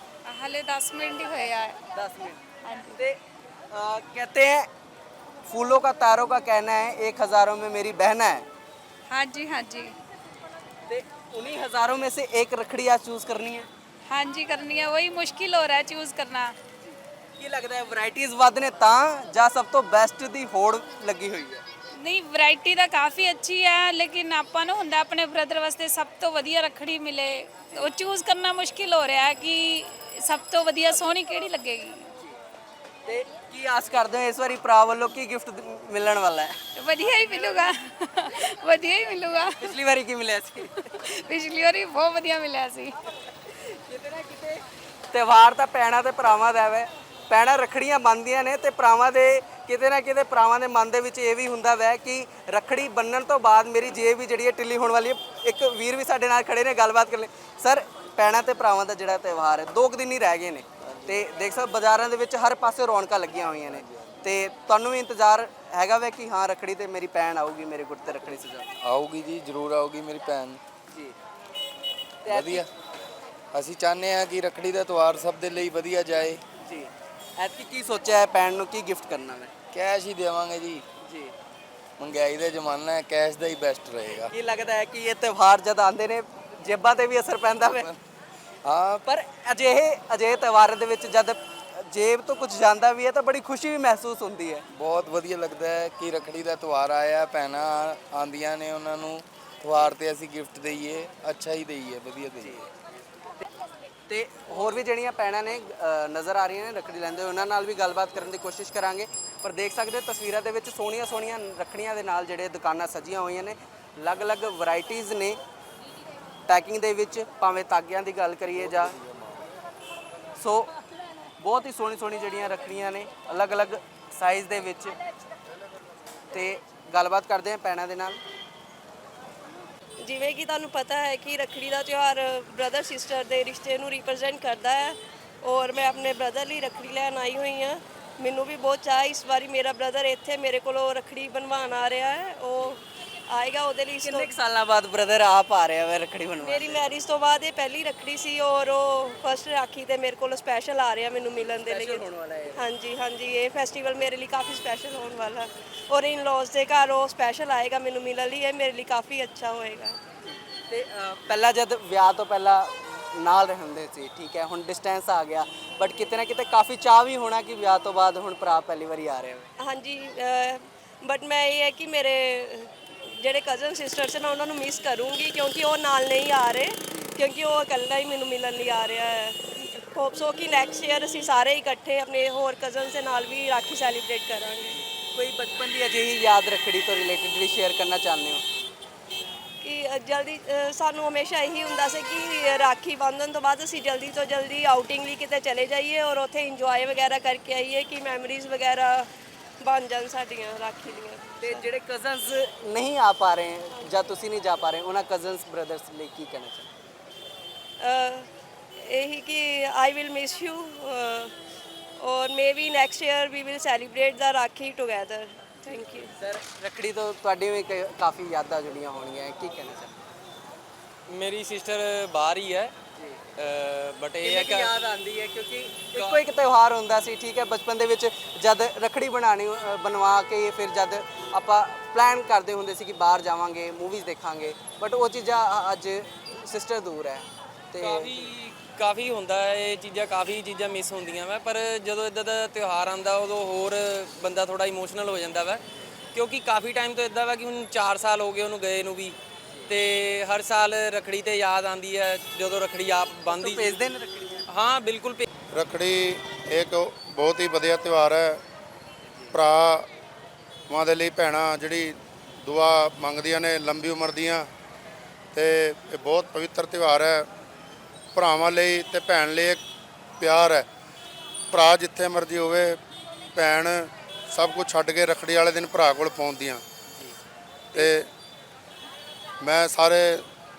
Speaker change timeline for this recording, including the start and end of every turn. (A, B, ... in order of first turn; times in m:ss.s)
0:00.3-0:01.8 A
0:02.0-0:02.4 B
0:02.6-0:03.0 A
0:03.7-0:04.7 B
0:05.5-0:08.4 B
0:09.1-0:09.9 A
0:10.9-0:13.7 B
0:14.1-0:16.5 A
0:16.8-0:21.6 B
0:22.0-0:32.1 A
0:33.1-0:36.6 B
0:36.8-0:39.7 A
0:39.6-0:40.9 B
0:41.0-0:42.9 A
0:43.9-1:08.7 B
1:00.8-1:01.2 C
1:08.8-1:10.6 C
1:10.9-1:11.2 B
1:12.2-1:12.7 B
1:12.3-1:12.7 C
1:13.5-1:16.4 C
1:16.6-1:19.5 B
1:19.7-1:20.8 C
1:21.0-1:21.3 B
1:22.0-1:24.3 C
1:24.3-1:27.9 B
1:28.7-1:29.0 C
1:29.1-1:34.6 B
1:34.7-1:42.7 C
1:44.1-1:55.4 B
1:56.5-1:59.0 B
2:00.4-2:00.7 B
2:01.4-2:05.0 B
2:06.3-2:08.2 B
2:10.0-2:24.3 D
2:24.0-2:26.8 B
2:26.4-2:32.0 D
2:31.6-2:32.6 B
2:32.5-2:40.0 D
2:40.3-2:49.5 B
2:49.6-3:04.8 D
3:04.7-3:08.4 B
3:09.6-3:19.1 D
3:19.6-3:21.7 D
3:21.4-3:26.7 B
3:27.8-3:28.3 D
3:28.8-3:31.3 D
3:32.0-3:36.0 D
3:36.2-3:40.0 B
3:41.1-3:42.7 E
3:43.4-3:44.8 E
3:44.2-3:58.3 B
3:45.9-3:46.2 E
3:57.8-4:05.6 E
4:06.1-4:13.9 E
4:13.3-4:14.5 B
4:14.5-4:15.3 E
4:15.5-4:18.4 F
4:19.3-4:19.9 F
4:20.7-4:24.5 F
4:25.3-4:27.3 F
4:28.1-4:29.6 F
4:30.2-4:30.7 F
4:31.5-4:32.8 F
4:33.4-4:36.6 F
4:37.7-4:38.1 F
4:39.4-4:40.2 F